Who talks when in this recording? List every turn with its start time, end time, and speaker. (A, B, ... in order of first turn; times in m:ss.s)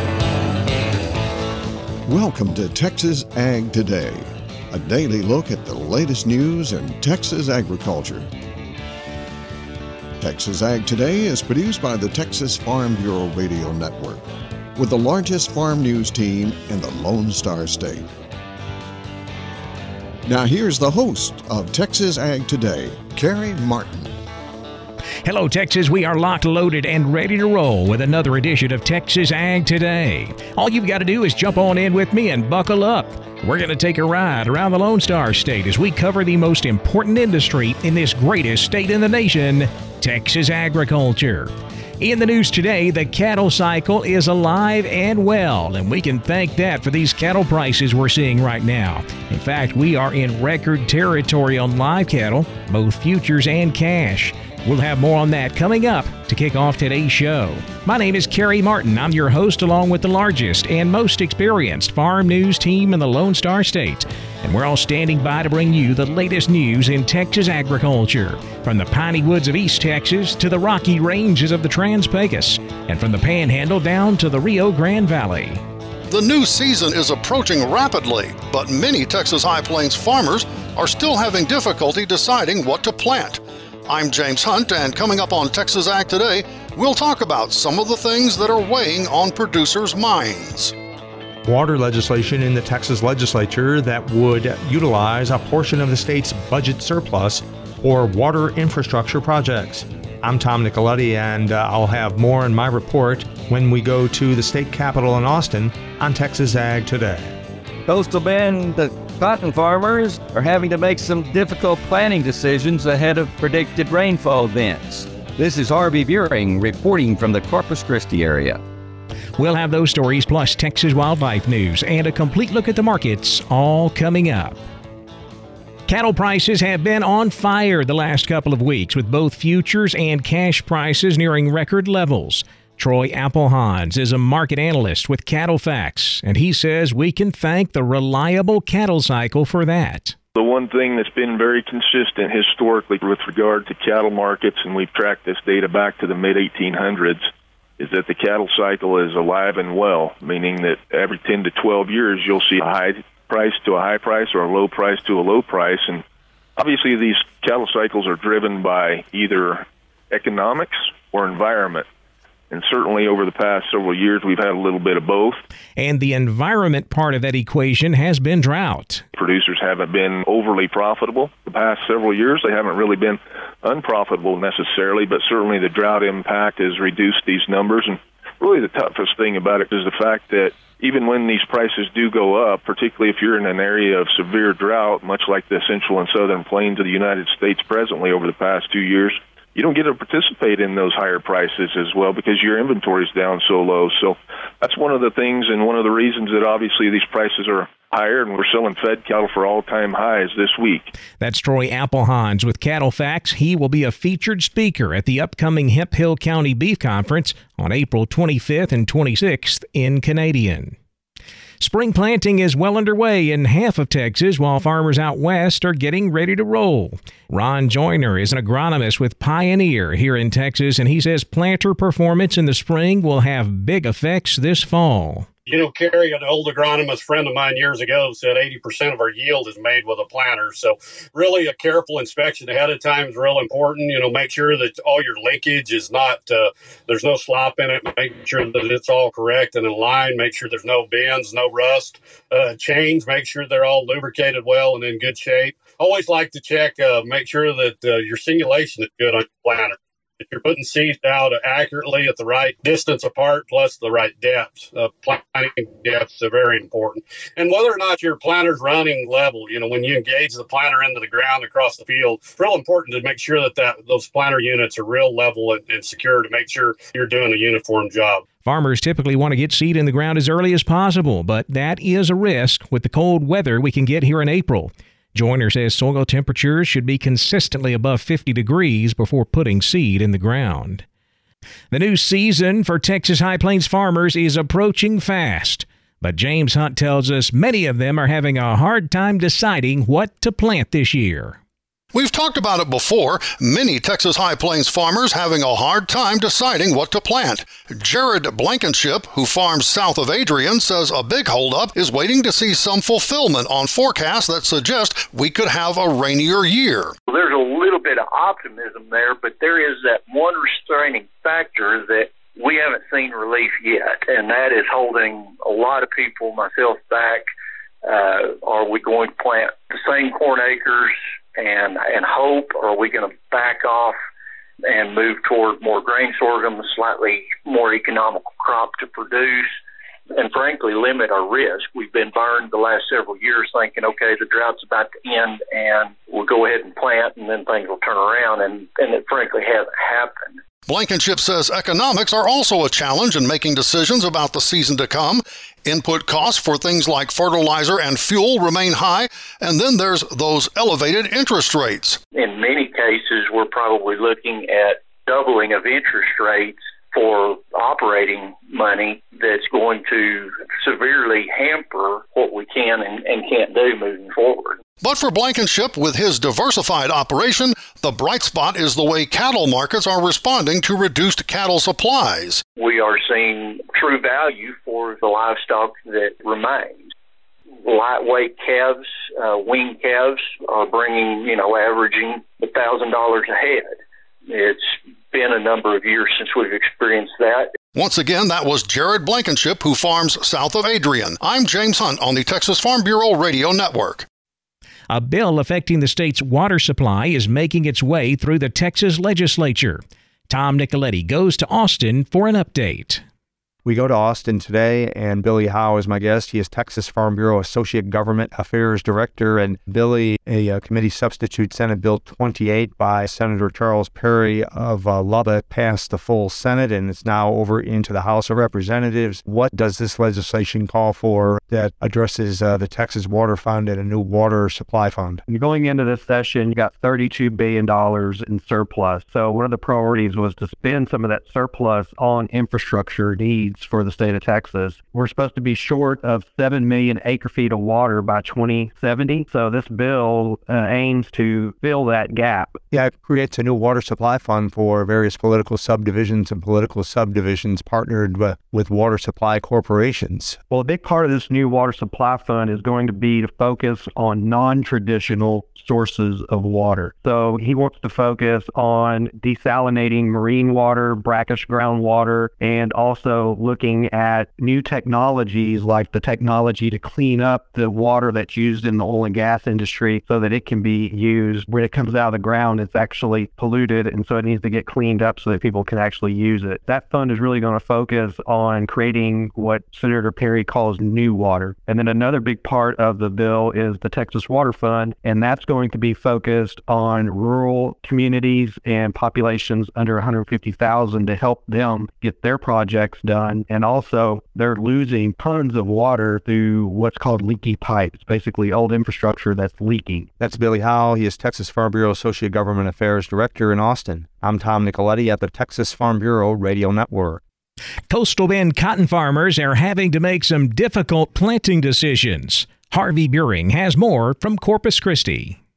0:02.1-0:08.3 A
0:10.2-0:18.1 A
0:20.3-0:24.1 A
0:25.2-1:15.6 B
1:16.1-1:30.8 C
1:31.4-1:47.4 D
1:47.9-1:58.6 E
1:59.4-2:04.6 B
2:05.9-2:20.2 B
2:20.4-2:36.0 F
2:36.6-2:41.9 F
2:42.5-2:45.4 F
2:45.8-2:49.0 B
2:49.2-3:20.9 F
3:21.2-3:30.8 B
3:31.6-3:45.3 B
3:45.5-4:28.2 G
4:28.4-4:40.8 B
4:41.7-4:51.4 B
4:51.9-5:07.0 C
5:07.1-5:17.3 H
5:17.8-5:24.0 H
5:24.7-5:29.5 H
5:30.1-5:40.4 H
5:40.7-5:52.0 C
5:52.1-6:04.6 H
6:04.8-6:12.4 C
6:12.6-6:16.9 H
6:17.6-6:23.7 H
6:24.3-6:27.5 H
6:27.7-6:34.1 C
6:34.9-6:43.0 B
6:43.6-7:05.2 D
7:05.3-7:22.6 I
7:22.7-7:30.4 D
7:30.5-8:20.1 I
8:20.2-8:27.2 D
8:27.9-8:35.4 B